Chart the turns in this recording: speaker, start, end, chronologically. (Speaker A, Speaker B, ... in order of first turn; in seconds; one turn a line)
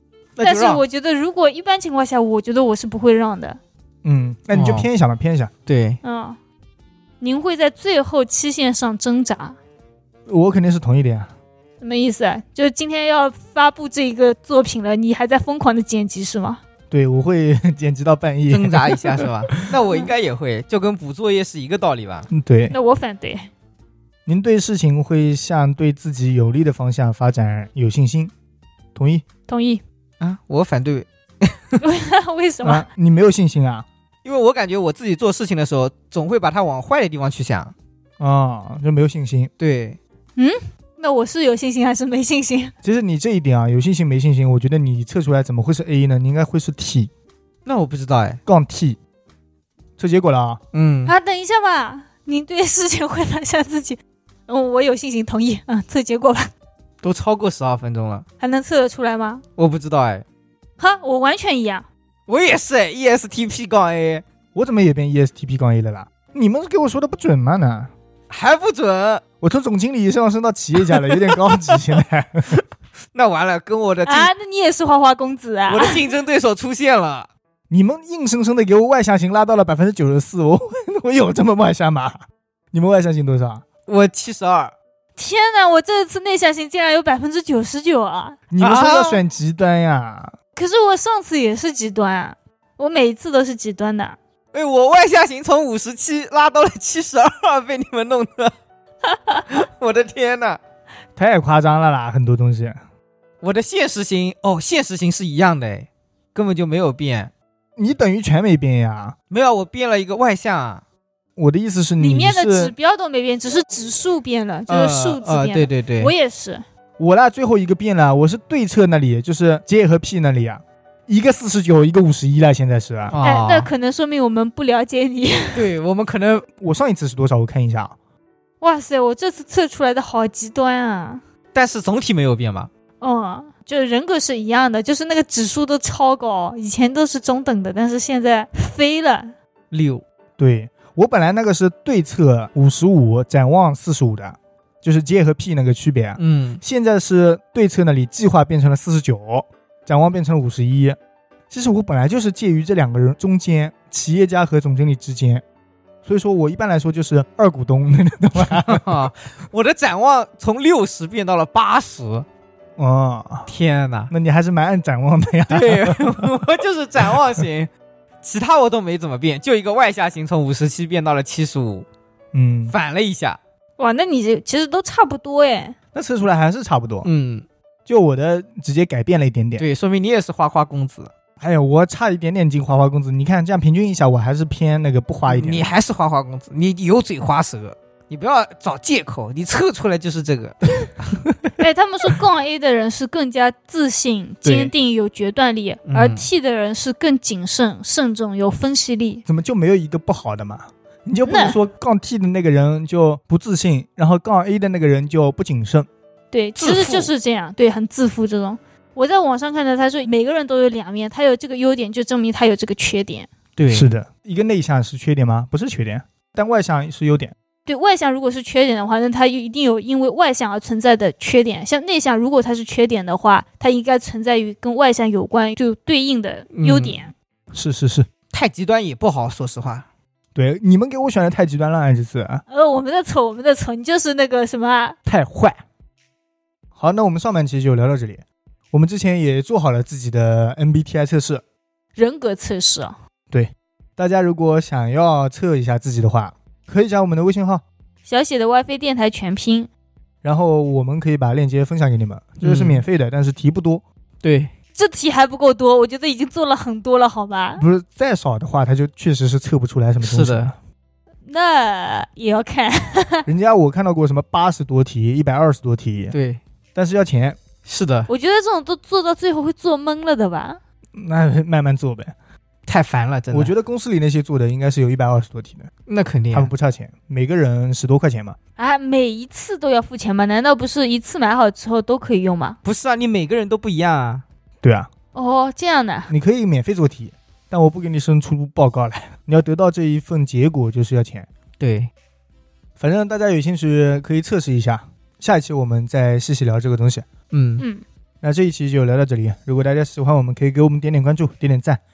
Speaker A: 0.3-0.8
Speaker B: 0.4-3.6
Speaker C: 4.0-5.5
Speaker A: 4.5-4.9
Speaker A: 5.7-6.0
Speaker B: 6.0-6.4
Speaker B: 7.2-9.6
Speaker C: 10.2-11.3
Speaker B: 11.8-16.6
Speaker C: 16.9-19.8
Speaker A: 18.5-22.3
Speaker C: 22.3-22.7
Speaker B: 22.7-23.5
Speaker C: 24.2-28.3
Speaker C: 28.9-29.2
Speaker B: 29.5-29.8
Speaker A: 30.2-31.8
Speaker B: 31.8-32.9
Speaker C: 32.6-33.9
Speaker A: 34.2-37.7
Speaker C: 38.2-39.5
Speaker A: 39.6-40.0
Speaker B: 40.4-42.7
Speaker C: 42.8-47.1
Speaker A: 47.6-48.4
Speaker C: 48.5-49.0
Speaker C: 50.0-50.6
Speaker A: 50.7-51.1
Speaker B: 51.0-56.5
Speaker A: 57.0-58.2
Speaker B: 58.4-59.4
Speaker A: 59.6-60.2
Speaker B: 60.8-61.9
Speaker A: 62.3-64.2
Speaker C: 64.5-67.9
Speaker A: 68.3-69.2
Speaker C: 69.4-72.5
Speaker A: 70.8-72.6
Speaker A: 73.1-74.3
Speaker B: 74.0-76.0
Speaker A: 75.7-77.3
Speaker C: 77.7-83.6
Speaker A: 83.8-84.7
Speaker B: 85.2-88.4
Speaker C: 88.5-90.3
Speaker A: 88.6-89.2
Speaker B: 90.5-94.2
Speaker A: 94.5-98.5
Speaker A: 99.5-100.6
Speaker C: 101.2-102.8
Speaker A: 103.4-107.3
Speaker C: 107.8-109.1
Speaker A: 109.3-110.8
Speaker C: 111.3-112.7
Speaker B: 112.0-116.6
Speaker A: 114.7-116.1
Speaker C: 117.0-123.2
Speaker A: 123.1-123.7
Speaker B: 123.2-125.7
Speaker A: 125.5-126.5
Speaker C: 126.6-128.0
Speaker B: 128.6-131.2
Speaker A: 131.5-132.7
Speaker B: 133.0-139.3
Speaker A: 139.7-140.0
Speaker C: 140.4-151.0
Speaker A: 146.2-146.6
Speaker C: 151.5-155.4
Speaker C: 156.0-159.0
Speaker A: 158.5-162.2
Speaker C: 162.8-163.5
Speaker A: 163.5-164.1
Speaker C: 164.1-166.3
Speaker A: 165.5-167.7
Speaker A: 168.2-171.8
Speaker C: 172.3-172.7
Speaker A: 172.7-173.4
Speaker B: 173.8-175.8
Speaker C: 175.9-177.1
Speaker A: 177.0-177.4
Speaker C: 177.8-179.7
Speaker A: 179.6-181.1
Speaker C: 181.4-185.7
Speaker A: 185.3-191.2
Speaker B: 191.6-199.2
Speaker C: 194.4-194.7
Speaker A: 195.9-196.2
Speaker C: 199.3-205.9
Speaker B: 201.2-201.6
Speaker B: 206.3-213.3
Speaker A: 206.6-207.1
Speaker A: 213.6-213.9
Speaker C: 213.7-217.3
Speaker B: 217.7-227.1
Speaker A: 226.5-227.1
Speaker C: 227.5-228.1
Speaker A: 228.3-229.8
Speaker C: 230.3-232.4
Speaker B: 232.5-234.9
Speaker C: 235.1-235.6
Speaker C: 236.8-241.4
Speaker B: 241.9-242.9
Speaker C: 243.3-247.6
Speaker B: 248.0-249.7
Speaker C: 250.2-253.8
Speaker A: 252.4-252.8
Speaker A: 254.2-254.5
Speaker B: 254.8-257.6
Speaker C: 257.6-260.5
Speaker A: 260.0-260.5
Speaker B: 261.2-263.3
Speaker C: 263.3-266.1
Speaker A: 266.1-266.4
Speaker C: 266.7-267.4
Speaker A: 267.6-268.1
Speaker B: 268.1-270.6
Speaker C: 270.9-272.1
Speaker A: 272.6-273.5
Speaker C: 273.3-275.7
Speaker A: 275.9-276.5
Speaker C: 276.3-278.4
Speaker B: 278.6-282.6
Speaker A: 282.6-284.2
Speaker C: 284.6-284.9
Speaker B: 285.1-286.1
Speaker C: 286.1-291.3
Speaker A: 291.6-291.9
Speaker C: 292.8-297.1
Speaker A: 297.3-297.6
Speaker B: 297.6-297.8
Speaker C: 298.2-301.8